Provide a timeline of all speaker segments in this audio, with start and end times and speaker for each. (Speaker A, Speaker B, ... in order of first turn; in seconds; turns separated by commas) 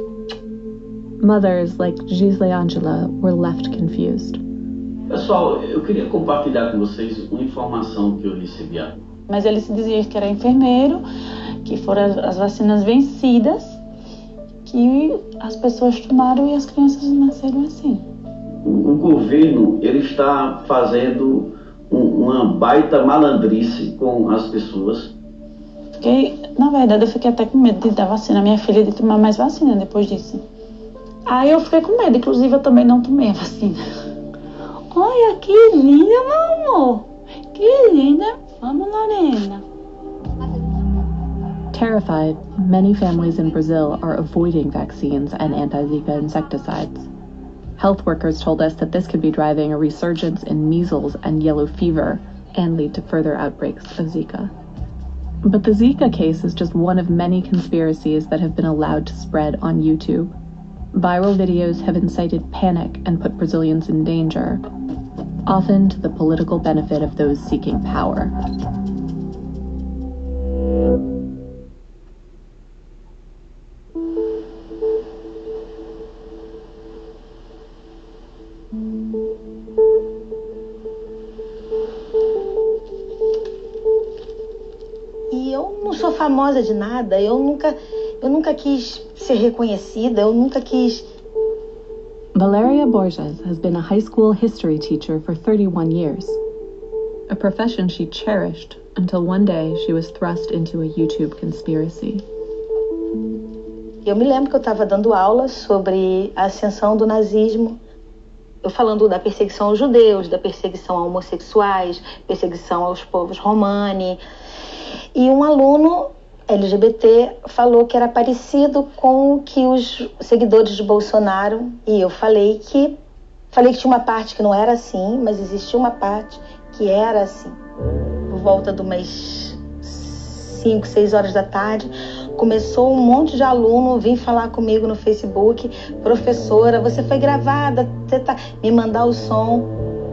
Speaker A: 1.2-4.4, Speaker B: 5.1-9.0, Speaker C: 9.3-11.0, Speaker C: 11.6-13.8, Speaker C: 14.7-18.1, Speaker B: 18.6-25.1, Speaker C: 26.0-30.4, Speaker C: 31.3-33.8, Speaker C: 34.9-39.6, Speaker A: 41.7-47.1, Speaker A: 47.8-54.5, Speaker A: 55.4-60.3, Speaker A: 60.9-64.6, Speaker A: 65.5-68.3, Speaker D: 85.3-91.1, Speaker A: 92.3-96.4, Speaker A: 97.3-102.2, Speaker D: 104.0-107.8, Speaker D: 108.6-114.2, Speaker D: 115.2-123.0, Speaker D: 123.5-127.6, Speaker D: 128.3-139.7